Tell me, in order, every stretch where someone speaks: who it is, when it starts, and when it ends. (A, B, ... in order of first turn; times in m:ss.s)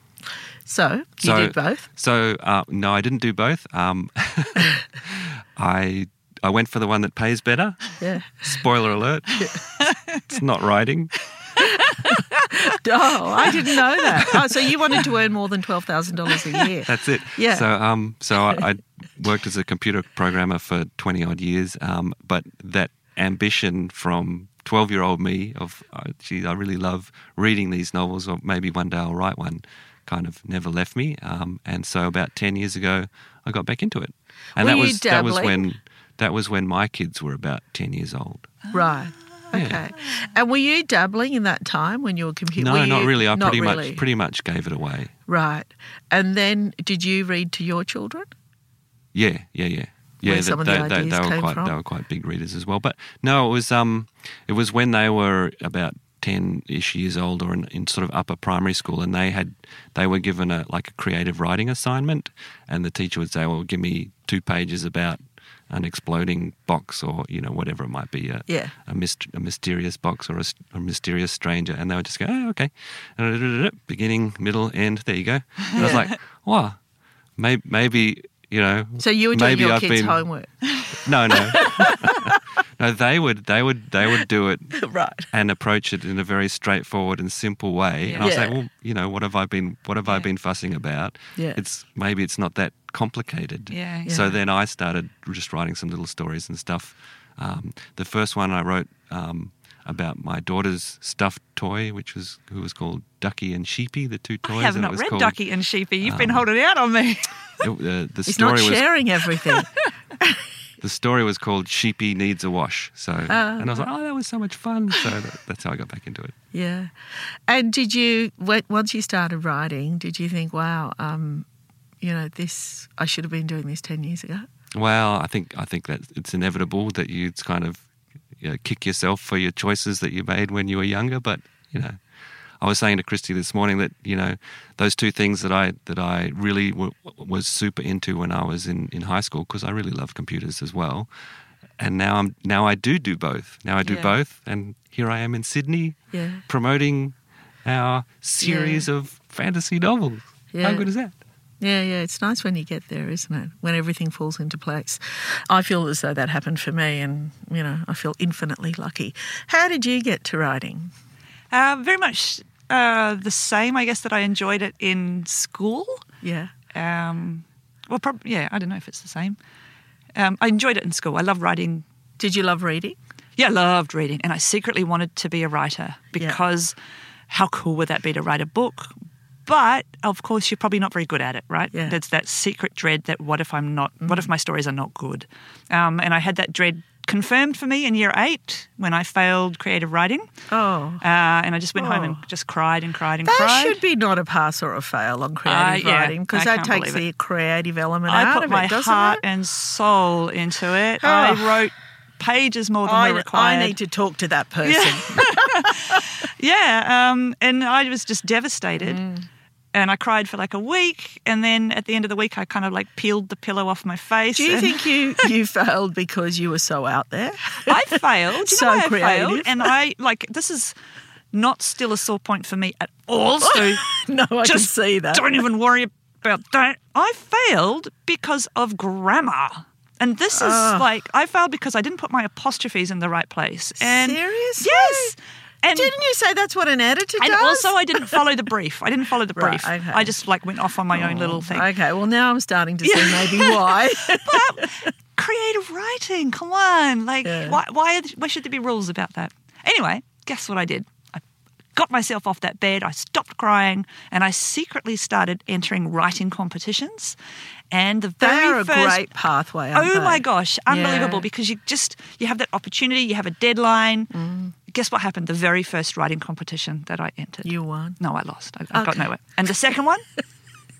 0:00.6-0:01.9 A
0:01.2-0:11.2 B
0:08.0-0:08.3 A
0:11.6-0:17.6 A
0:16.9-0:38.5 B
0:34.6-0:35.7 A
0:38.7-0:39.0 C
0:38.7-0:44.0 A
0:39.5-0:39.8 B
0:42.6-0:45.1 B
0:45.3-0:48.2 A
0:49.1-1:16.8 B
0:50.2-0:51.7 A
1:08.5-1:08.7 A
1:15.8-1:16.0 A
1:15.8-1:16.1 C
1:17.4-1:20.2 B
1:19.0-1:20.6 A
1:20.9-1:45.4 B
1:21.5-1:22.3 A
1:24.8-1:25.3 A
1:28.0-1:28.3 C
1:28.2-1:28.6 A
1:31.4-1:31.6 A
1:33.7-1:34.1 C
1:34.0-1:34.4 A
1:44.4-1:47.4 C
1:46.0-1:46.4 B
1:47.6-1:48.9 B
1:48.3-1:49.7 A
1:50.8-1:56.3 B
1:53.3-1:53.9 A
1:56.5-1:56.9 A
1:57.5-2:01.4 A
2:02.0-2:04.5 A
2:04.7-2:07.9 B
2:08.4-2:12.0 B
2:12.6-2:21.1 B
2:21.8-2:31.1 B
2:26.1-2:26.4 A
2:28.4-2:28.8 A
2:30.5-2:30.9 A
2:31.6-2:40.9 A
2:41.5-2:46.0 C
2:46.2-2:46.5 A
2:46.7-2:49.4 C
2:50.2-2:51.8 C
2:52.2-2:53.0 A
2:53.4-2:56.7 C
2:57.3-2:58.9 C
2:59.5-3:10.3 C
3:10.5-3:11.0 A
3:11.0-3:13.8 C
3:11.8-3:12.2 A
3:13.2-3:19.2 A
3:15.4-3:17.0 C
3:18.1-3:23.8 C
3:21.0-3:21.6 A
3:22.8-3:26.1 A
3:24.6-3:29.0 C
3:28.8-3:29.3 A
3:29.7-3:35.3 C
3:34.3-3:39.7 A
3:37.7-3:40.7 C
3:41.3-3:43.8 C
3:43.4-3:45.4 A
3:44.4-3:55.9 C
3:50.3-3:50.9 A
3:53.8-3:55.1 A
3:55.7-3:58.2 A
3:57.2-4:01.7 C
3:59.4-4:00.2 A
4:00.9-4:04.8 A
4:02.8-4:11.2 C
4:07.2-4:07.6 A
4:11.7-4:17.2 C
4:17.7-4:19.1 C
4:18.2-4:21.2 A
4:19.7-4:24.1 C
4:24.1-4:24.5 A
4:24.7-4:30.0 C
4:27.4-4:28.0 A
4:28.7-4:29.1 A